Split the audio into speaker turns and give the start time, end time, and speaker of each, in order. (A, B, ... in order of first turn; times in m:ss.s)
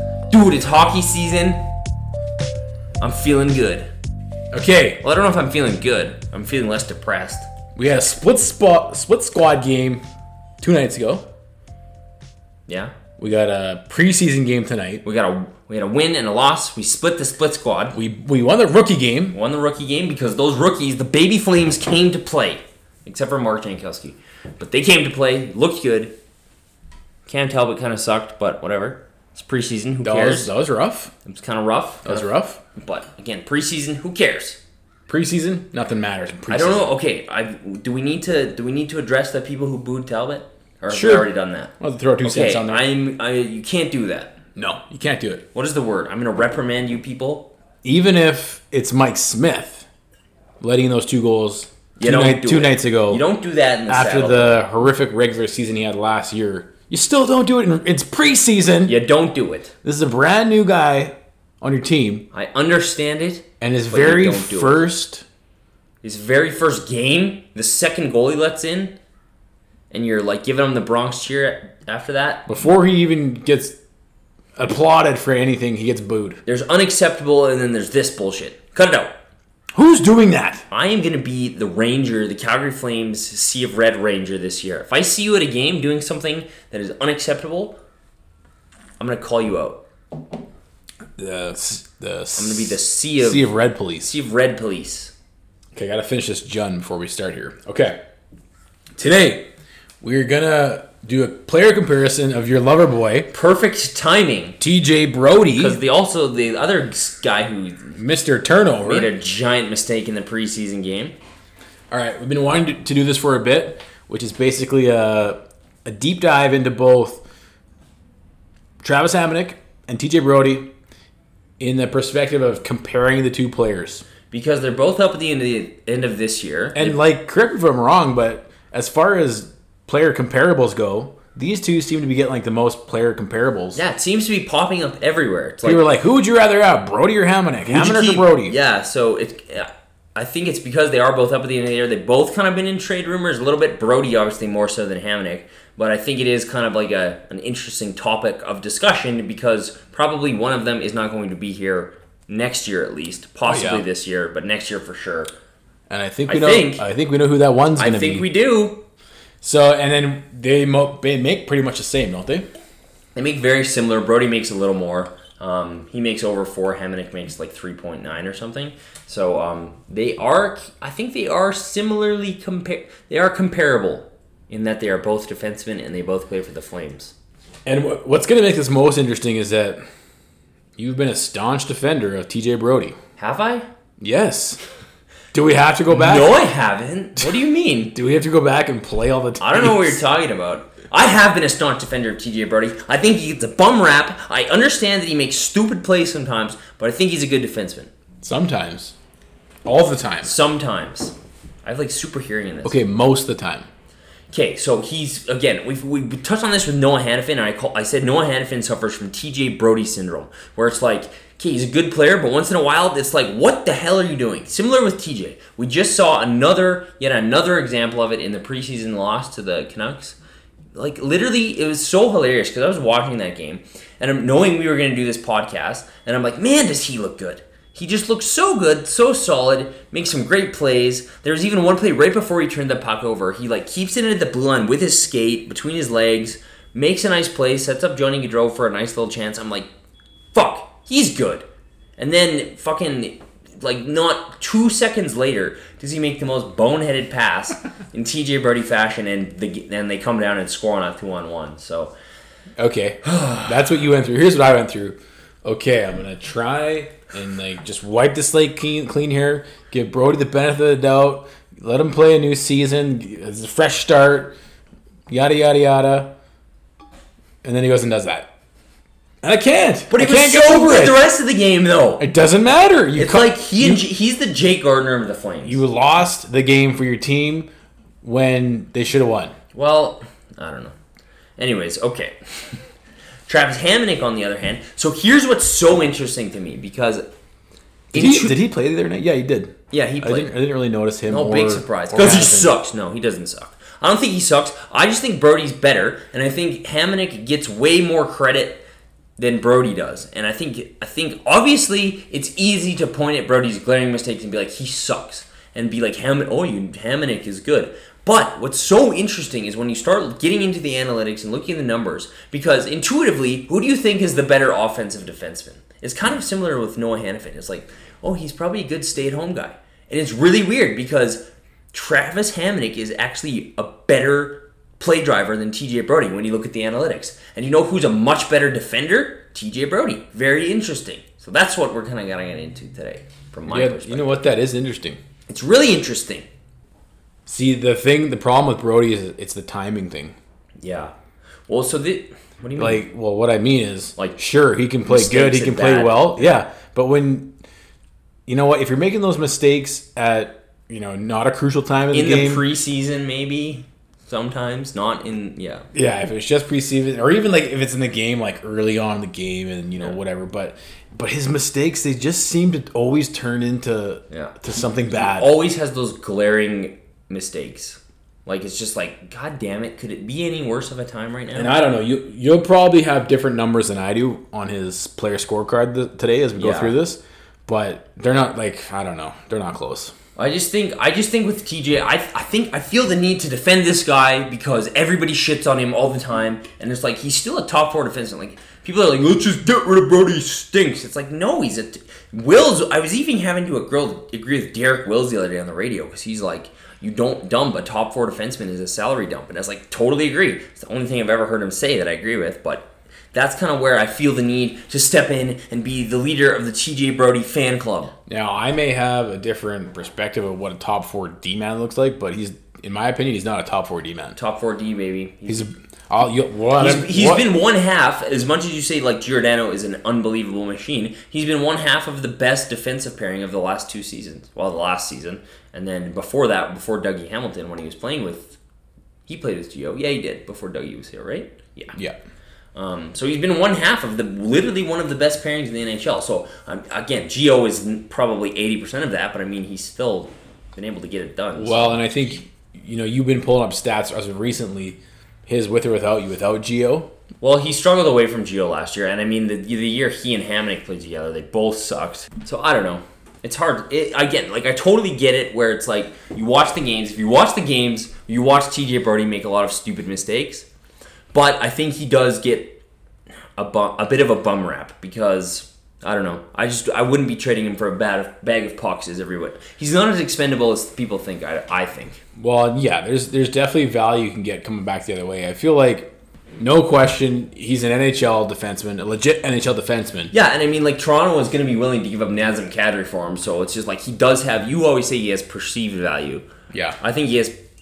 0:00.3-0:01.6 A
0:03.0-0:03.9 A
0:04.5-0:05.0 B
0:05.0-0:07.5 A
0:07.8-0:10.0 B
0:10.6-0:11.3 B
0:12.7-0:13.0 A
0:13.2-0:15.0 B
0:15.0-0:18.0 A
0:17.9-0:19.4 B
0:19.3-0:26.1 A
0:27.3-0:30.5 A
0:30.0-0:31.1 B
0:31.2-0:34.6 A
0:32.0-0:32.6 B
0:35.1-0:36.9 B
0:36.5-0:44.4 A
0:40.9-0:42.8 B
0:44.6-0:45.4 B
0:45.5-0:47.5 A
0:47.8-0:49.9 B
0:50.6-0:53.2 B
0:52.0-0:54.6 A
0:53.9-0:59.0 B
0:58.8-0:59.7 A
0:59.8-1:02.3 B
1:02.3-1:04.8 A
1:03.6-1:05.2 B
1:06.0-1:09.0 A
1:09.9-1:12.5 A
1:12.5-1:13.8 B
1:14.6-1:16.4 B
1:16.5-1:19.1 A
1:19.7-1:20.7 B
1:20.7-1:27.8 A
1:29.0-1:29.8 A
1:31.2-1:34.2 B
1:32.4-1:35.1 A
1:35.8-1:38.0 B
1:39.0-1:39.5 B
1:40.0-1:43.3 B
1:43.3-1:44.6 A
1:44.6-1:45.8 B
1:45.6-1:48.0 A
1:47.9-1:49.1 B
1:48.8-1:51.2 A
1:51.9-1:57.2 B
1:58.8-2:00.7 B
2:01.6-2:04.0 B
2:04.3-2:07.0 A
2:06.8-2:13.8 B
2:13.8-2:15.8 A
2:15.6-2:18.6 B
2:17.6-2:35.3 A
2:33.5-2:33.8 B
2:35.9-2:38.3 B
2:36.3-2:36.9 A
2:37.8-2:38.8 A
2:39.4-2:42.5 B
2:43.2-2:57.1 A
2:57.7-2:59.8 B
3:00.8-3:03.0 B
3:03.2-3:03.7 A
3:04.0-3:04.6 B
3:05.3-3:06.4 B
3:05.9-3:07.9 A
3:07.9-3:10.0 B
3:09.4-3:17.9 A
3:18.2-3:19.0 B
3:19.6-3:20.4 B
3:20.2-3:22.8 A
3:22.6-3:23.7 B
3:24.3-3:40.2 A
3:40.7-3:59.7 A
4:00.3-4:01.5 A
4:02.0-4:11.9 A
4:12.6-4:24.4 B
4:13.1-4:13.5 A
4:25.1-4:26.1 B
4:27.4-4:28.3 B
4:29.2-4:31.0 B
4:29.9-4:32.0 A
4:32.0-4:33.8 B
4:33.0-4:35.6 A
4:35.4-4:37.5 B
4:38.0-4:39.4 B
4:39.5-4:40.7 A
4:41.4-4:42.2 A
4:43.3-4:47.0 A
4:47.9-4:48.4 A
4:47.9-4:52.5 B
4:49.7-4:50.3 A
4:51.1-4:58.6 A
4:59.2-5:34.2 A
5:33.5-5:35.0 B
5:35.3-5:36.3 A
5:37.3-5:40.2 B
5:40.6-5:40.9 A
5:41.5-5:42.8 A
5:42.6-5:47.3 B
5:44.9-5:46.4 A
5:48.3-5:52.4 B
5:51.9-5:55.7 A
5:55.7-6:05.4 B
6:04.1-6:04.4 A
6:04.9-6:11.5 A
6:11.3-6:19.9 B
6:16.4-6:16.8 A
6:20.2-6:47.9 A
6:48.1-6:54.2 B
6:54.2-6:55.5 A
6:55.3-6:57.3 B
6:56.6-7:08.4 A
7:09.1-7:11.8 A
7:12.6-7:21.9 A
7:21.4-7:26.9 B
7:27.2-7:40.5 A
7:41.1-7:42.6 A
7:43.4-7:52.0 A
7:52.2-8:00.1 B
8:00.1-8:06.3 A
8:06.5-8:06.8 B
8:06.8-8:07.4 A